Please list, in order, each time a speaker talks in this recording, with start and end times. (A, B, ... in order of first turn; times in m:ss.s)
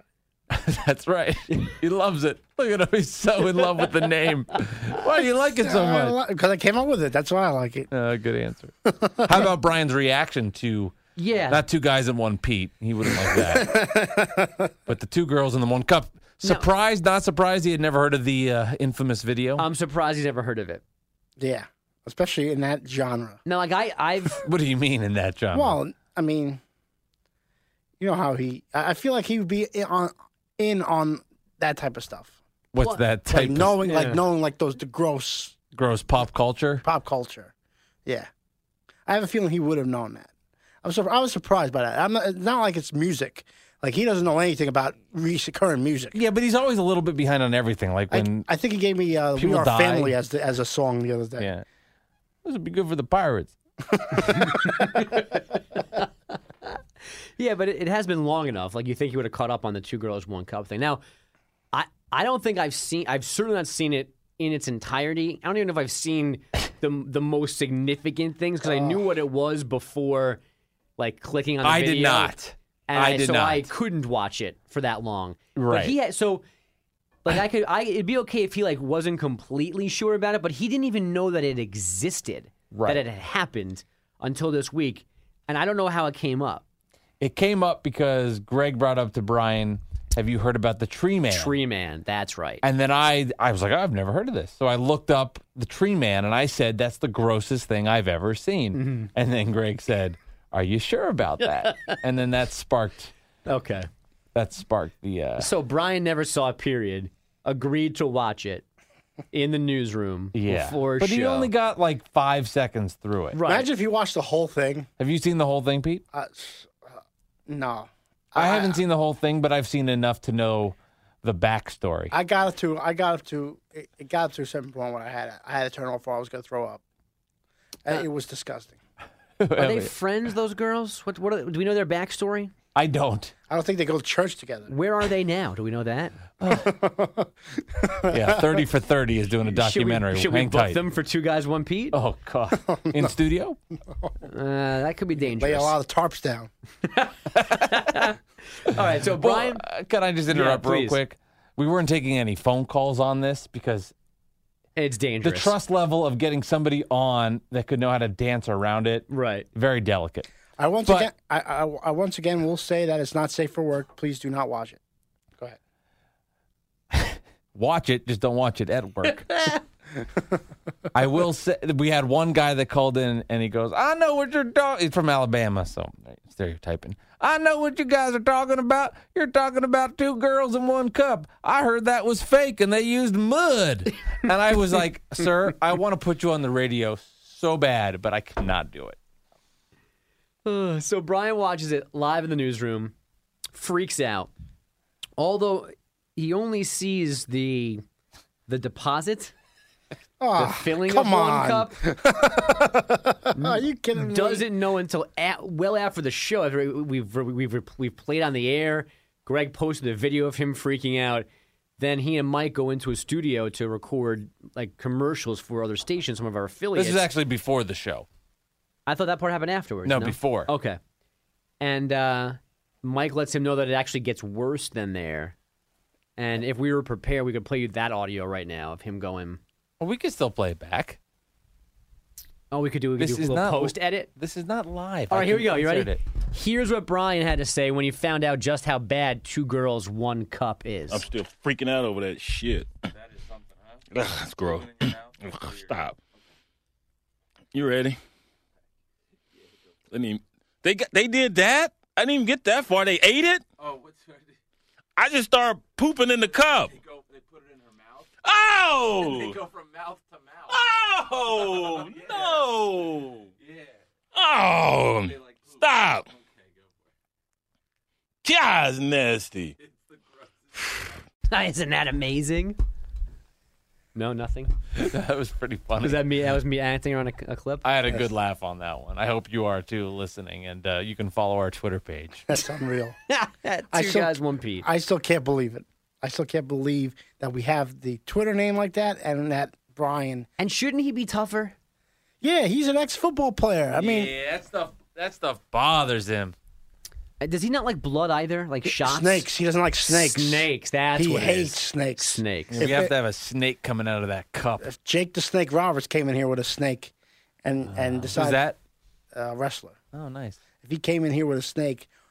0:00.5-0:06.2 A
0:05.6-0:07.9 B
0:07.9-0:11.0 A
0:08.8-0:09.4 B
0:11.2-0:11.6 C
0:11.5-0:14.0 A
0:13.1-0:14.7 B
0:14.9-0:19.6 A
0:19.6-0:20.8 C
0:21.4-0:23.4 B
0:23.4-0:24.5 C
0:24.4-0:25.8 A
0:25.5-0:26.6 B
0:28.0-0:32.3 B
0:32.7-0:33.8 A
0:32.8-0:33.0 C
0:33.3-0:35.6 B
0:33.8-0:34.2 C
0:35.7-0:36.8 A
0:36.8-0:37.5 B
0:39.0-0:40.3 B
0:40.8-0:46.2 B
0:46.1-0:48.5 A
0:48.1-0:51.5 B
0:49.4-0:50.1 A
0:51.4-0:51.6 A
0:52.4-0:53.5 A
0:54.1-0:54.6 B
0:54.3-0:55.4 C
0:57.4-1:01.0 C
1:01.7-1:10.4 C
1:08.7-1:09.0 B
1:11.0-1:12.3 C
1:11.6-1:13.7 A
1:12.9-1:16.4 C
1:15.5-1:15.9 A
1:17.2-1:26.6 C
1:22.8-1:23.0 A
1:27.2-1:31.6 A
1:31.3-1:32.6 C
1:32.6-1:43.1 A
1:38.7-1:39.1 C
1:41.4-1:42.0 C
1:43.5-1:43.9 C
1:44.3-1:45.5 A
1:45.4-1:48.6 C
1:49.3-1:51.5 C
1:50.3-1:53.4 A
1:53.3-1:53.7 C
1:53.4-1:54.9 B
1:55.0-1:56.0 A
1:56.1-1:58.8 B
1:58.3-2:02.1 A
2:02.1-2:06.8 B
2:07.8-2:08.8 B
2:09.4-2:09.9 A
2:09.5-2:12.5 C
2:12.7-2:13.3 A
2:13.5-2:14.7 B
2:14.7-2:16.2 C
2:16.4-2:18.6 B
2:16.4-2:16.7 A
2:18.1-2:20.8 A
2:19.5-2:22.0 C
2:21.9-2:23.6 A
2:22.7-2:23.1 B
2:24.2-2:25.7 C
2:25.3-2:26.5 B
2:26.8-2:29.6 C
2:27.4-2:28.0 A
2:29.2-2:33.9 A
2:30.3-2:31.0 C
2:34.8-2:35.5 C
2:35.2-2:40.3 A
2:39.1-2:39.5 C
2:40.6-2:44.8 B
2:46.9-2:49.3 A
2:49.3-2:49.6 C
2:50.9-3:09.0 A
3:10.4-3:12.9 C
3:13.5-3:14.3 C
3:15.2-3:17.8 C
3:18.5-3:19.3 C
3:20.2-3:24.5 B
3:20.4-3:21.8 C
3:23.3-3:31.2 C
3:31.8-3:37.0 C
3:36.8-3:38.1 A
3:38.8-3:40.8 C
3:39.8-3:40.5 A
3:41.6-3:45.3 C
3:46.2-3:49.4 C
3:49.8-3:51.0 A
3:52.5-3:54.1 C
3:53.0-3:56.0 A
3:55.1-4:01.0 C
4:00.9-4:02.7 D
4:03.0-4:03.8 A
4:03.9-4:06.0 D
4:04.5-4:05.7 A
4:07.5-4:08.0 D
4:09.9-4:13.4 D
4:13.6-4:14.2 A
4:15.0-4:16.8 D
4:16.7-4:18.0 A
4:18.2-4:19.4 D
4:19.2-4:20.5 A
4:20.5-4:23.3 D
4:21.5-4:22.0 A
4:24.1-4:26.1 D
4:25.2-4:25.5 A
4:28.2-4:29.5 D
4:31.3-4:32.6 C
4:33.9-4:34.6 C
4:34.8-4:36.1 A
4:35.8-4:37.7 C
4:37.6-4:42.3 A
4:42.3-4:43.0 B
4:43.1-4:44.7 C
4:43.7-4:50.3 B
4:50.4-4:51.5 C
4:52.2-4:54.1 B
4:53.7-4:56.3 A
4:57.2-4:59.3 C
4:58.6-5:02.9 B
4:59.8-5:02.6 C
5:02.5-5:04.7 A
5:04.6-5:06.9 B
5:07.4-5:08.5 B
5:07.7-5:08.1 C
5:08.1-5:08.6 A
5:09.1-5:09.8 B
5:09.9-5:10.4 A
5:10.6-5:11.9 B